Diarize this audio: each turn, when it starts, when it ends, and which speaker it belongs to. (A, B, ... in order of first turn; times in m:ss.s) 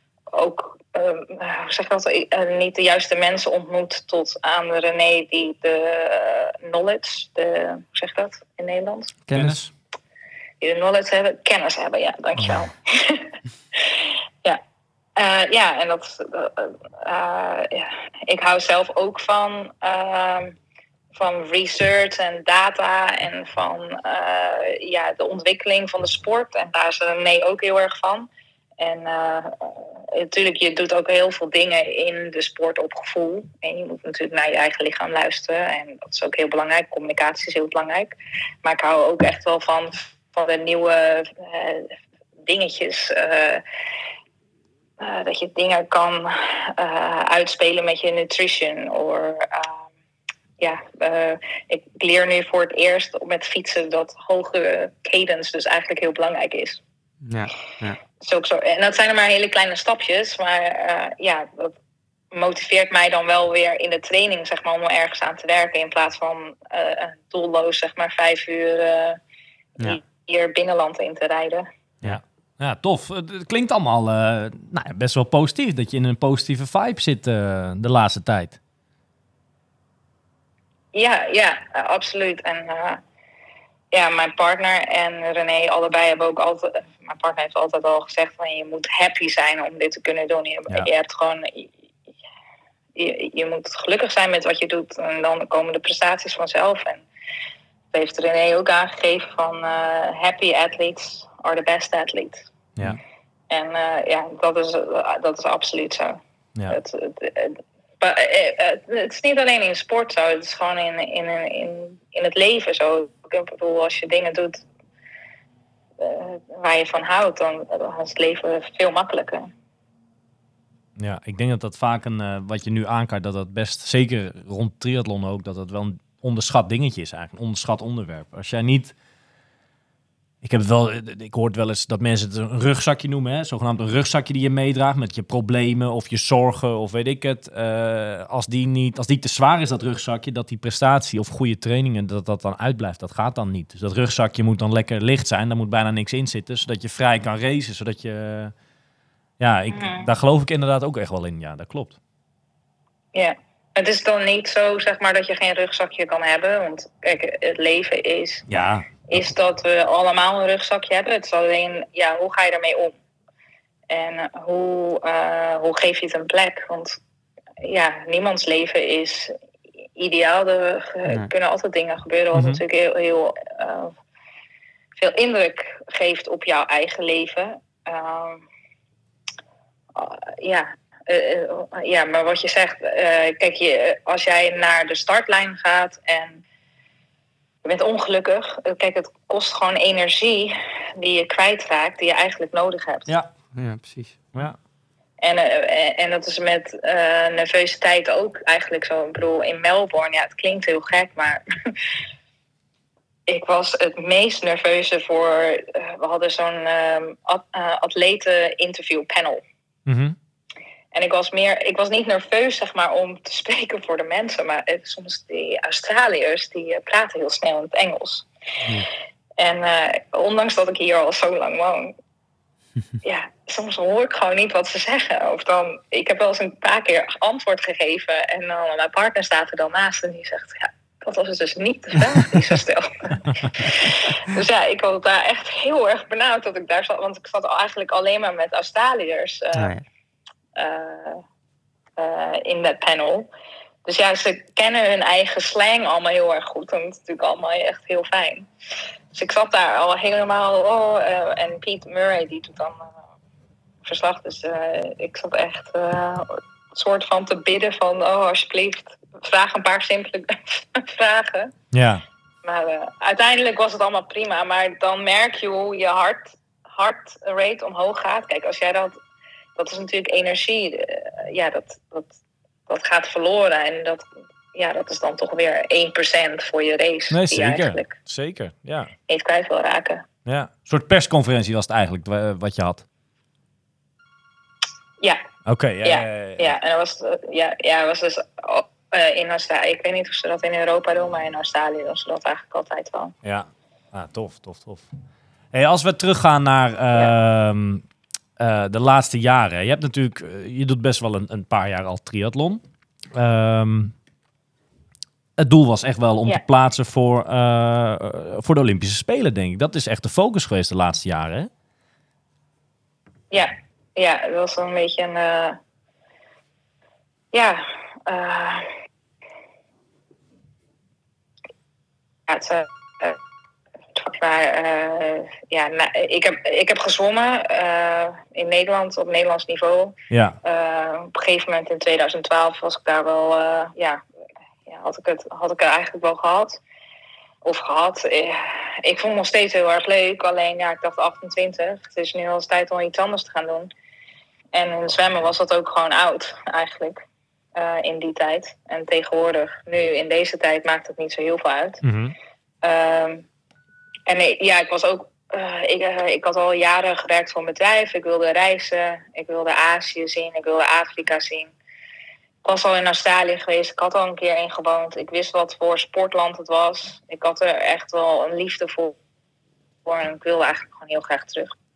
0:00.3-0:09.1 A
0:09.3-0:09.6 B
0:09.3-0:09.7 C
0:10.6-0:14.6 A
0:15.2-0:20.6 A
0:21.1-0:28.3 A
0:28.8-0:41.9 A
0:42.4-0:43.6 A
0:45.0-0:49.9 A
0:50.6-0:56.8 A
0:57.2-0:58.0 B
0:58.2-1:01.8 A
1:02.3-1:09.2 A
1:09.8-1:11.7 A
1:12.0-1:18.6 C
1:20.9-1:23.0 A
1:23.9-1:31.7 A
1:33.0-1:37.0 A
1:37.9-1:42.5 A
1:43.5-1:54.6 A
1:56.0-1:59.5 A
2:01.0-2:09.0 C
2:10.4-2:28.5 C
2:29.4-2:32.0 C
2:29.7-2:30.1 A
2:33.1-2:43.0 A
2:38.5-2:39.3 C
2:43.9-2:47.0 A
2:47.6-2:49.4 A
2:50.0-2:53.9 A
2:52.3-2:52.6 C
2:55.0-2:58.4 A
3:00.0-3:06.4 A
3:07.6-3:13.1 A
3:13.5-3:14.2 B
3:15.2-3:21.4 A
3:23.3-3:29.4 A
3:29.9-3:30.2 C
3:30.9-3:38.3 A
3:39.4-3:42.0 A
3:43.0-3:59.7 A
3:59.6-3:59.8 B
4:00.6-4:01.2 A
4:02.0-4:03.3 A
4:03.8-4:08.5 A
4:09.1-4:13.0 A
4:13.8-4:21.5 A
4:21.7-4:22.0 C
4:22.4-4:29.0 A
4:29.6-4:32.1 A
4:32.7-4:38.0 A
4:37.1-4:38.9 C
4:39.1-4:40.0 A
4:40.3-4:42.8 C
4:45.5-4:46.6 C
4:45.8-4:53.2 A
4:53.2-4:54.9 C
4:55.5-4:57.8 C
4:58.4-5:02.6 C
5:03.1-5:03.9 C
5:05.4-5:11.5 C
5:13.3-5:15.6 A
5:17.3-5:18.7 A
5:22.3-5:23.2 A
5:24.0-5:34.0 A
5:30.1-5:30.4 C
5:34.7-5:36.6 A
5:37.4-5:43.7 A
5:44.5-5:47.0 A
5:47.6-5:51.8 A
5:51.8-5:52.2 C
5:52.6-5:53.3 A
5:54.1-6:01.5 A
6:02.4-6:09.0 A
6:09.8-6:11.5 A